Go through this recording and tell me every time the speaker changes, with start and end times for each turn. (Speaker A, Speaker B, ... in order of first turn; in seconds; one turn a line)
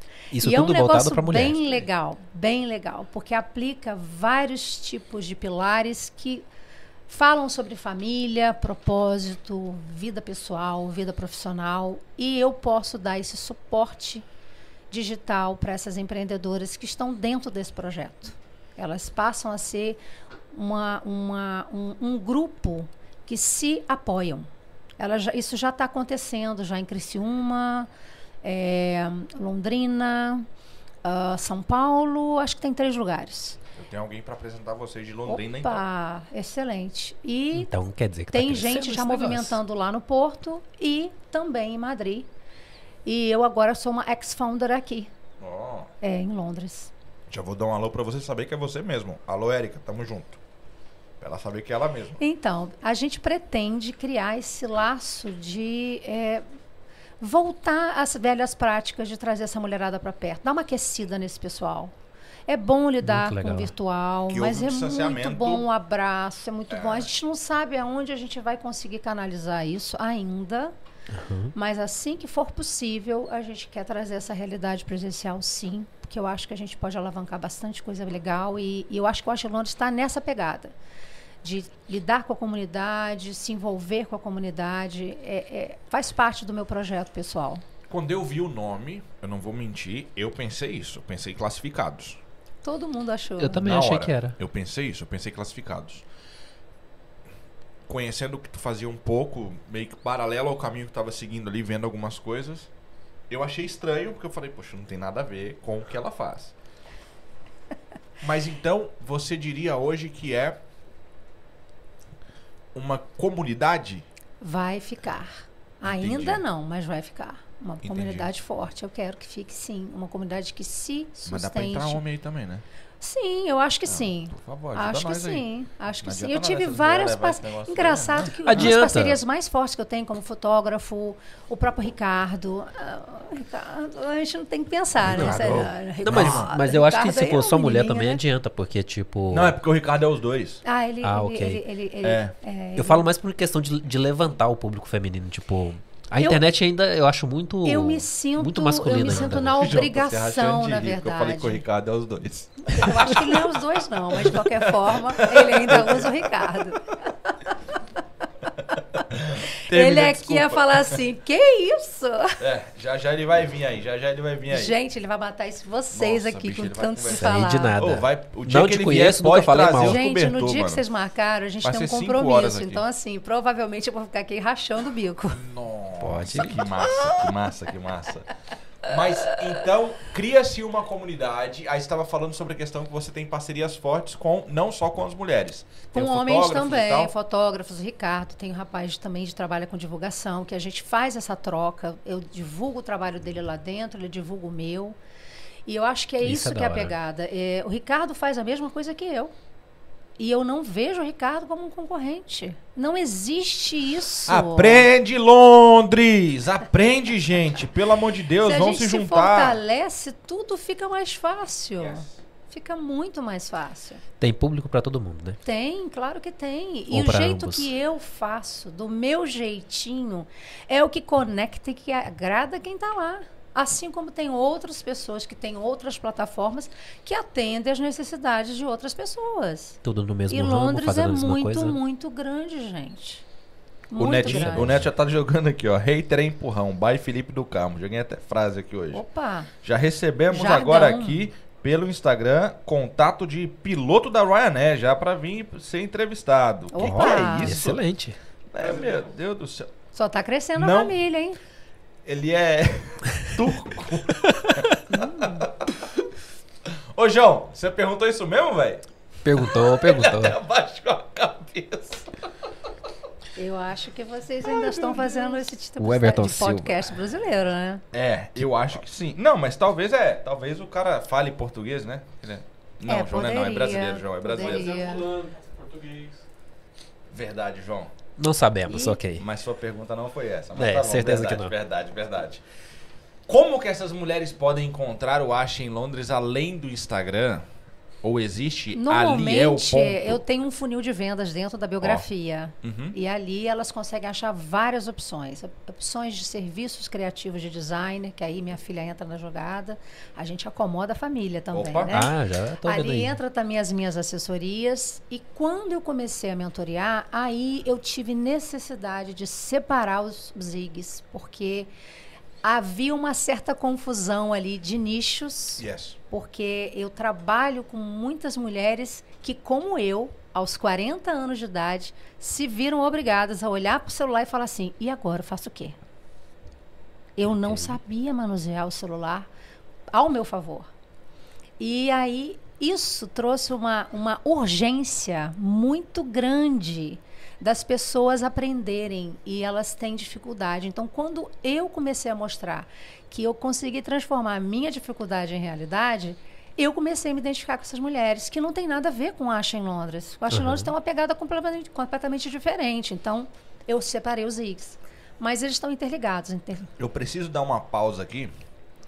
Speaker A: 0.3-1.8
Speaker B: 0.4-6.4
Speaker B: 7.1-14.2
Speaker B: 14.9-20.0
Speaker B: 20.5-24.5
Speaker B: 25.0-27.9
Speaker B: 28.4-30.5
Speaker B: 31.0-33.6
Speaker C: 33.7-35.8
Speaker B: 35.2-37.7
Speaker A: 37.5-39.6
Speaker B: 38.3-42.3
Speaker B: 43.0-45.1
Speaker C: 45.4-45.9
Speaker B: 46.0-46.9
Speaker C: 47.3-50.4
Speaker C: 51.2-52.2
Speaker B: 52.2-56.4
Speaker B: 57.2-61.9
Speaker B: 62.5-70.7
Speaker A: 63.0-63.7
Speaker C: 64.3-65.7
Speaker C: 66.7-67.1
Speaker A: 71.1-71.5
Speaker B: 71.5-80.7
Speaker B: 81.4-87.6
Speaker C: 87.9-92.2
Speaker B: 92.6-93.8
Speaker A: 93.4-94.4
Speaker C: 93.6-96.0
Speaker C: 97.9-102.7
Speaker C: 103.3-106.5
Speaker C: 108.2-110.6
Speaker C: 112.7-114.0
Speaker B: 114.4-122.0
Speaker C: 115.8-116.4
Speaker C: 117.8-118.3
Speaker C: 121.3-122.6
Speaker B: 123.0-138.2
Speaker C: 123.8-125.4
Speaker C: 126.0-128.7
Speaker A: 128.4-129.2
Speaker A: 135.0-139.6
Speaker C: 135.0-136.5
Speaker C: 139.3-140.6
Speaker B: 140.6-143.1
Speaker A: 141.0-141.6
Speaker C: 142.0-142.3
Speaker A: 142.8-149.7
Speaker B: 146.2-146.4
Speaker B: 147.6-151.6
Speaker C: 149.1-153.3
Speaker B: 152.6-156.9
Speaker C: 154.2-156.3
Speaker C: 159.1-161.0
Speaker B: 159.7-162.4
Speaker C: 162.4-164.8
Speaker B: 164.5-167.8
Speaker C: 165.9-170.8
Speaker A: 167.2-170.0
Speaker B: 169.8-175.4
Speaker C: 171.6-172.8
Speaker C: 175.3-178.3
Speaker A: 176.0-176.8
Speaker C: 178.8-187.1
Speaker B: 185.9-195.0
Speaker B: 195.7-199.3
Speaker A: 196.2-196.9
Speaker B: 200.2-204.9
Speaker C: 204.3-209.6
Speaker B: 208.4-214.0
Speaker C: 211.8-212.1
Speaker A: 214.2-215.4
Speaker B: 215.4-233.2
Speaker A: 216.9-217.7
Speaker A: 229.8-231.8
Speaker B: 233.9-234.8
Speaker C: 234.0-239.0
Speaker A: 234.2-234.8
Speaker B: 238.9-239.5
Speaker C: 239.6-247.8
Speaker B: 240.3-241.3
Speaker B: 246.7-247.6
Speaker A: 246.8-248.2
Speaker C: 248.5-249.7
Speaker D: 248.6-249.1
Speaker B: 249.9-251.4
Speaker C: 250.6-251.0
Speaker C: 252.0-254.7
Speaker A: 254.3-254.6
Speaker B: 254.9-255.5
Speaker C: 255.4-255.8
Speaker C: 256.9-262.1
Speaker A: 259.2-260.4
Speaker B: 263.4-267.8
Speaker C: 264.5-265.3
Speaker A: 265.8-266.8
Speaker C: 267.9-274.8
Speaker B: 272.9-275.1
Speaker D: 274.3-276.2
Speaker C: 277.1-277.9
Speaker A: 278.2-279.2
Speaker B: 278.7-279.0
Speaker C: 279.2-282.4
Speaker A: 280.6-281.5
Speaker C: 283.3-287.4
Speaker C: 288.0-290.2
Speaker B: 288.7-311.7
Speaker C: 292.6-292.9
Speaker C: 301.5-302.0
Speaker A: 301.9-303.2
Speaker B: 312.4-325.8
Speaker C: 315.6-316.0
Speaker B: 327.2-329.3
Speaker A: 327.3-327.8
Speaker B: 329.9-330.7
Speaker B: 331.6-356.7
Speaker A: 350.3-350.7
Speaker C: 356.8-358.3